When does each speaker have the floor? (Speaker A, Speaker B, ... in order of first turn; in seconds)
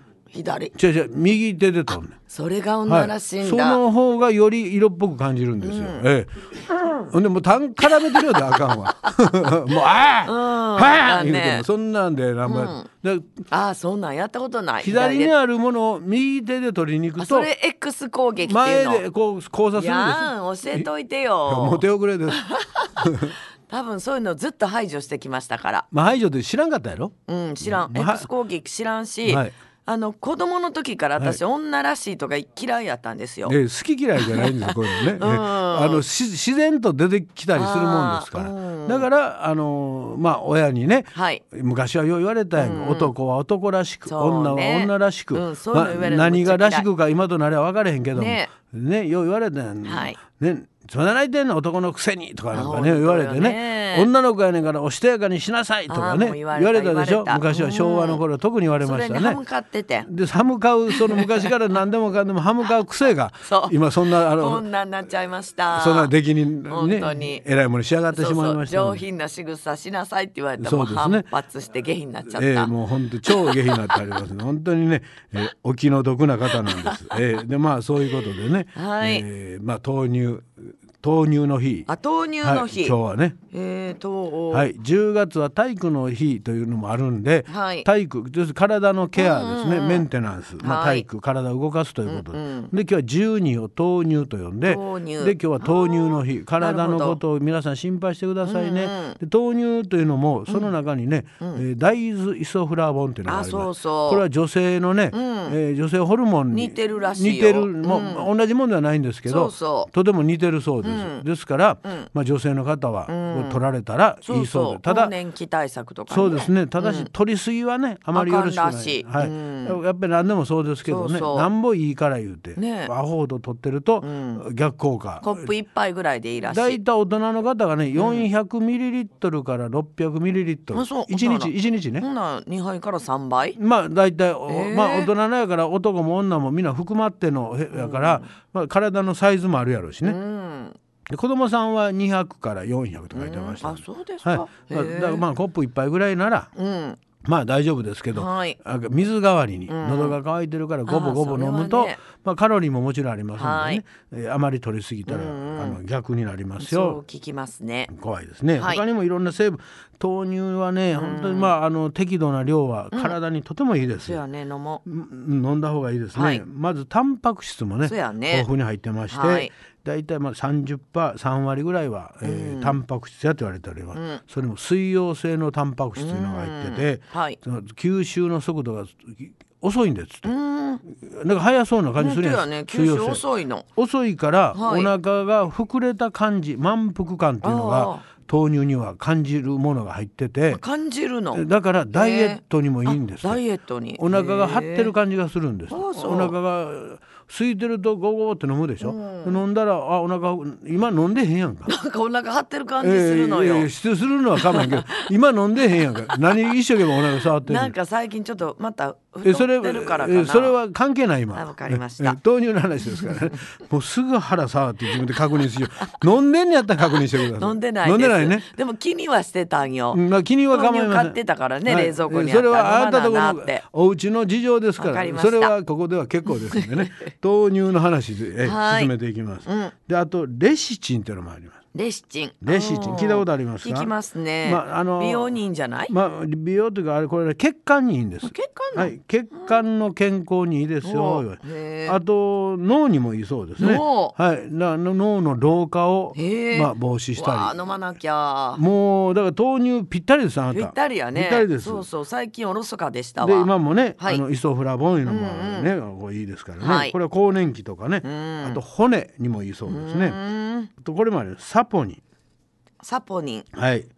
Speaker A: 0.3-0.7, 2.3-3.8, 5.6-6.0, 7.8-8.7, 10.2-11.7, 12.4-12.9, 13.5-15.3, 17.2-19.1, 19.7-25.9, 27.3-33.6, 34.2-36.0, 37.5-39.1, 41.1-41.4, 42.6-43.1, 44.1-46.9, 48.1-48.5, 49.8-50.2, 52.5-54.1, 55.9-58.2, 58.8-60.1, 60.9-61.5, 63.5-66.1, 66.7-67.4, 68.1-72.7, 73.2-74.0, 76.5-77.2, 78.8-79.3, 81.9-83.0, 83.5-84.7, 87.5-87.9, 89.2-90.1, 90.6-91.1, 92.1-92.7, 94.6-97.2, 98.4-99.2, 103.3-104.2, 105.1-105.6, 106.5-108.3, 109.3-109.9, 110.8-111.2, 113.1-113.6, 114.2-117.1, 118.1-119.8, 120.8-121.5, 122.6-122.9, 124.0-124.4, 125.2-126.8, 128.0-128.3, 130.7-133.6, 134.5-135.1, 137.7-138.3, 140.0-140.8, 143.1-145.2, 146.6-147.0, 148.1-148.6, 149.7-150.2, 150.9-152.0, 153.4-153.8, 155.1-155.8, 156.6-157.9, 158.6-158.8, 161.0-161.5, 164.0-164.8, 166.1-166.4, 167.8-168.5, 169.1-169.5, 172.2-172.8, 173.9-174.2, 176.0-177.4, 180.2-180.8, 182.0-183.7, 184.5-184.9, 187.4-188.1, 190.5-194.9, 195.7-196.3, 198.8-199.4, 201.7-203.7, 204.3-205.1, 205.8-206.3, 207.4-210.6, 211.3-212.2, 217.3-223.6, 224.8-225.6, 226.3-227.1, 228.4-228.9, 229.4-229.7, 231.7-235.9, 238.2-239.5, 240.8-242.0, 243.6-244.2, 246.2-248.6, 250.5-254.2, 255.1-255.7, 256.6-257.0, 258.0-258.6, 259.7-260.7, 262.8-263.5
Speaker B: 0.7-2.1, 2.9-6.3, 6.9-13.4, 14.8-17.5, 18.4-20.9, 21.5-22.4, 23.0-23.4, 25.9-28.3, 29.2-29.5, 33.5-59.4, 60.1-64.7, 65.7-69.0, 70.6-71.3, 72.3-81.9, 82.4-83.4, 84.5-115.1, 116.1-125.5, 126.5-132.1, 133.6-140.2, 141.1-146.5, 147.2-157.0, 157.9-164.2, 164.8-180.3, 180.9-183.2, 183.8-190.6, 191.3-193.4, 194.0-201.7, 202.8-207.7, 209.2-218.5, 219.9-231.6, 232.4-247.6, 248.6-251.8, 253.2-260.2, 260.8-262.0, 263.5-263.9